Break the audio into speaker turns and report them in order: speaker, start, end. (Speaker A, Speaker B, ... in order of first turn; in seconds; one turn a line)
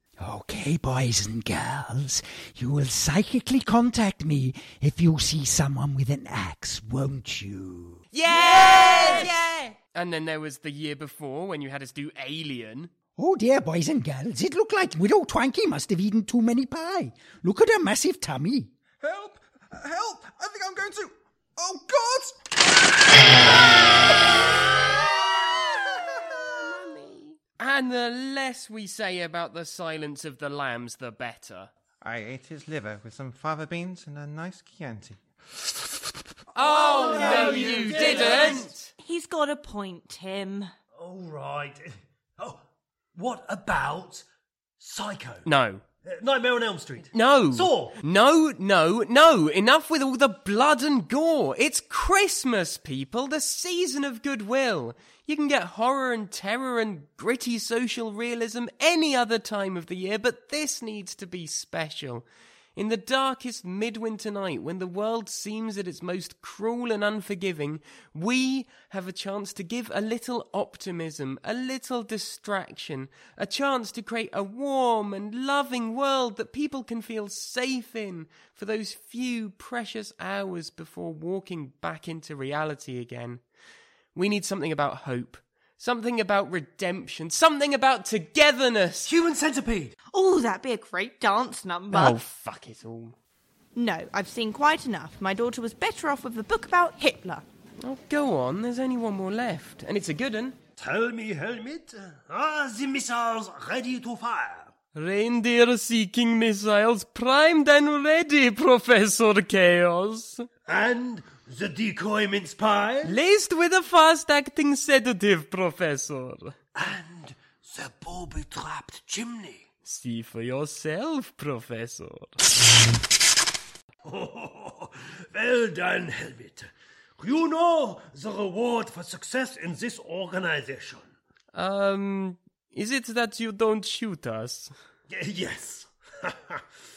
Speaker A: 0.2-8.0
Speaker B: 8.1-9.4
Speaker C: 8.2-9.7
Speaker B: 9.9-12.9
Speaker A: 13.2-18.7
Speaker D: 19.0-22.5
Speaker D: 25.5-27.0
Speaker B: 27.5-31.7
Speaker D: 32.0-35.9
Speaker B: 36.5-38.9
Speaker E: 36.6-38.7
Speaker C: 39.0-40.7
Speaker E: 41.0-42.6
Speaker E: 43.1-44.2
Speaker E: 44.8-45.5
Speaker B: 45.5-45.8
Speaker E: 46.0-48.0
Speaker B: 47.1-83.4
Speaker B: 84.1-89.1
Speaker E: 89.0-89.9
Speaker C: 90.1-92.2
Speaker B: 91.9-93.1
Speaker C: 93.8-97.4
Speaker B: 97.8-100.6
Speaker E: 100.8-104.7
Speaker B: 104.9-110.5
Speaker E: 110.7-113.2
Speaker B: 113.0-116.5
Speaker E: 116.7-119.7
Speaker B: 119.8-122.3
Speaker E: 124.0-131.1
Speaker B: 131.5-134.7
Speaker E: 135.1-136.6